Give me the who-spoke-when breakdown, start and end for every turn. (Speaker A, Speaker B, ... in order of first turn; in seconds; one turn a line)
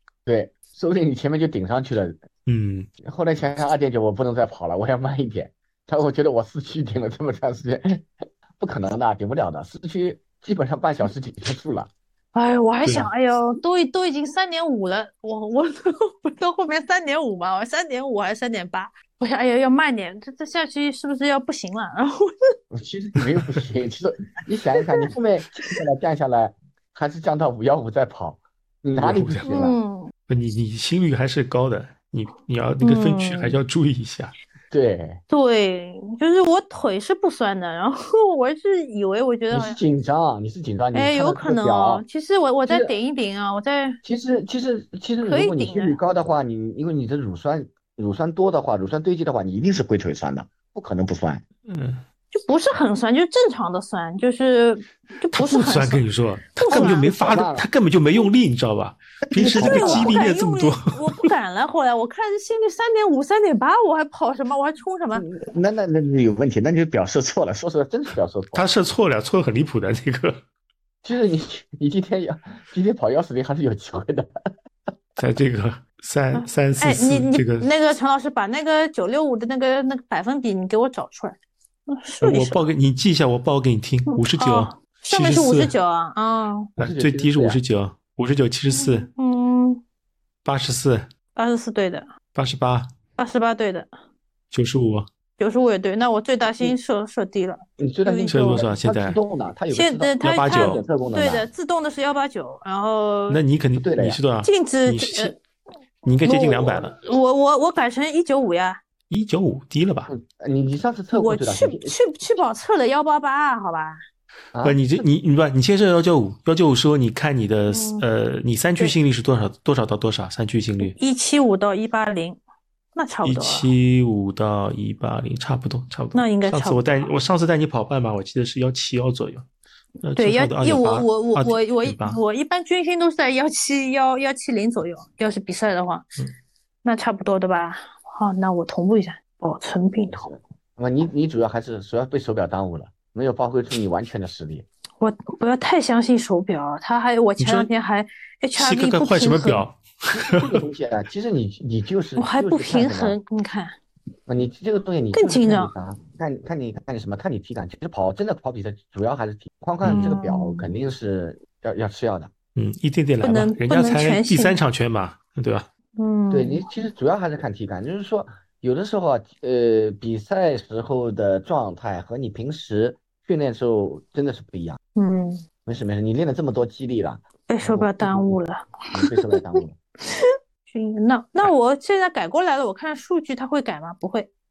Speaker A: 0.3-2.2
Speaker B: 2.5-2.9
Speaker A: 3.0-8.1
Speaker A: 8.6-11.9
Speaker C: 12.3-22.3
Speaker A: 22.7-29.8
Speaker B: 29.0-29.6
Speaker C: 29.5-30.1
Speaker B: 30.3-34.3
Speaker C: 32.8-33.6
Speaker A: 34.7-35.2
Speaker C: 35.3-39.8
Speaker A: 39.5-42.0
Speaker C: 40.9-44.0
Speaker A: 42.7-43.0
Speaker A: 44.0-51.4
Speaker C: 45.2-46.0
Speaker B: 51.7-52.0
Speaker C: 52.3-56.1
Speaker B: 55.3-61.3
Speaker C: 56.6-57.1
Speaker A: 56.7-57.7
Speaker A: 59.3-60.3
Speaker C: 59.4-65.3
Speaker A: 65.2-68.7
Speaker B: 68.5-70.4
Speaker A: 71.0-74.3
Speaker B: 75.2-77.7
Speaker C: 76.3-82.6
Speaker B: 82.2-85.7
Speaker C: 84.1-86.7
Speaker B: 86.8-89.1
Speaker A: 86.8-87.6
Speaker C: 88.7-89.8
Speaker B: 90.5-91.1
Speaker C: 91.4-92.1
Speaker B: 92.3-92.9
Speaker C: 93.2-93.9
Speaker B: 94.5-95.1
Speaker C: 95.4-98.7
Speaker A: 97.8-101.5
Speaker B: 98.3-99.2
Speaker C: 99.7-103.4
Speaker B: 100.2-100.8
Speaker B: 103.3-105.4
Speaker A: 103.8-104.2
Speaker C: 104.4-105.4
Speaker B: 106.0-107.0
Speaker C: 106.2-108.8
Speaker B: 109.1-110.1
Speaker A: 110.1-112.0
Speaker C: 111.1-114.0
Speaker A: 114.5-115.1
Speaker B: 114.6-121.0
Speaker C: 117.7-118.0
Speaker C: 120.8-122.4
Speaker C: 123.0-123.7
Speaker B: 123.2-129.5
Speaker C: 126.1-127.1
Speaker B: 130.0-132.2
Speaker C: 130.2-136.1
Speaker C: 136.8-140.3
Speaker A: 140.1-144.7
Speaker C: 145.0-149.7
Speaker B: 147.4-147.7
Speaker B: 148.6-150.6
Speaker A: 150.1-153.2
Speaker C: 152.2-153.8
Speaker A: 154.3-162.3
Speaker C: 155.1-155.7
Speaker B: 159.8-160.2
Speaker C: 159.9-160.7
Speaker B: 162.6-165.7
Speaker C: 163.2-164.6
Speaker C: 166.0-166.7
Speaker A: 166.3-174.8
Speaker C: 175.0-175.4
Speaker A: 175.7-178.4
Speaker C: 177.5-179.4
Speaker A: 178.9-179.8
Speaker C: 180.1-184.3